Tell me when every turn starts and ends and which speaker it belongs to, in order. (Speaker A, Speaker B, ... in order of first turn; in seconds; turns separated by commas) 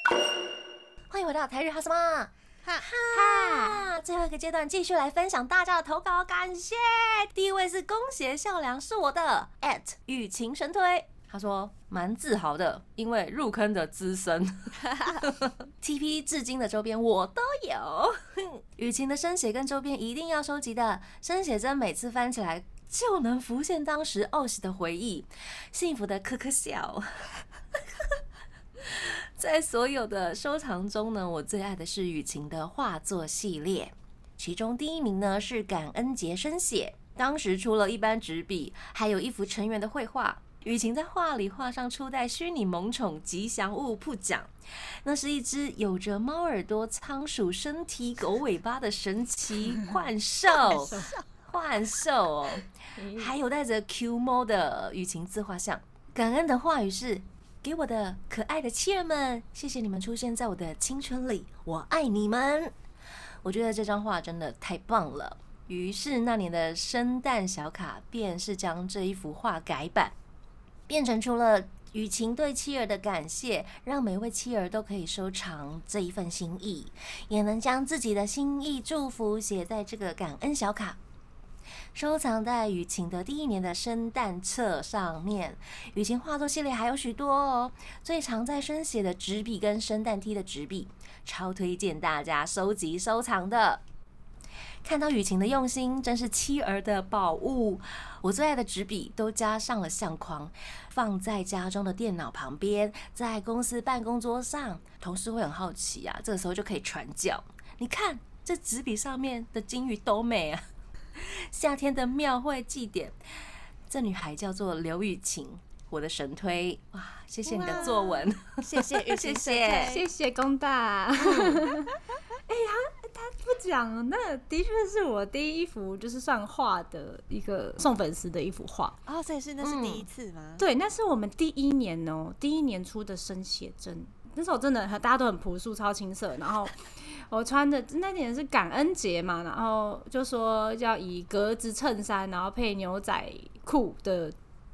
Speaker A: 1.1-27.3, Speaker B: 2.6-2.9, Speaker C: 3.1-3.9, Speaker A: 28.8-62.7, Speaker C: 50.6-51.1, Speaker B: 50.7-51.0, Speaker C: 53.0-53.3, Speaker A: 63.4-70.1, Speaker A: 70.9-81.0, Speaker A: 81.9-93.8, Speaker A: 94.8-110.6, Speaker A: 111.2-113.2, Speaker A: 113.9-120.0, Speaker B: 117.5-120.0, Speaker C: 117.6-118.0, Speaker C: 119.9-121.9, Speaker A: 121.3-121.6, Speaker C: 122.5-128.9, Speaker B: 129.1-130.6, Speaker A: 129.6-130.1, Speaker C: 130.6-144.3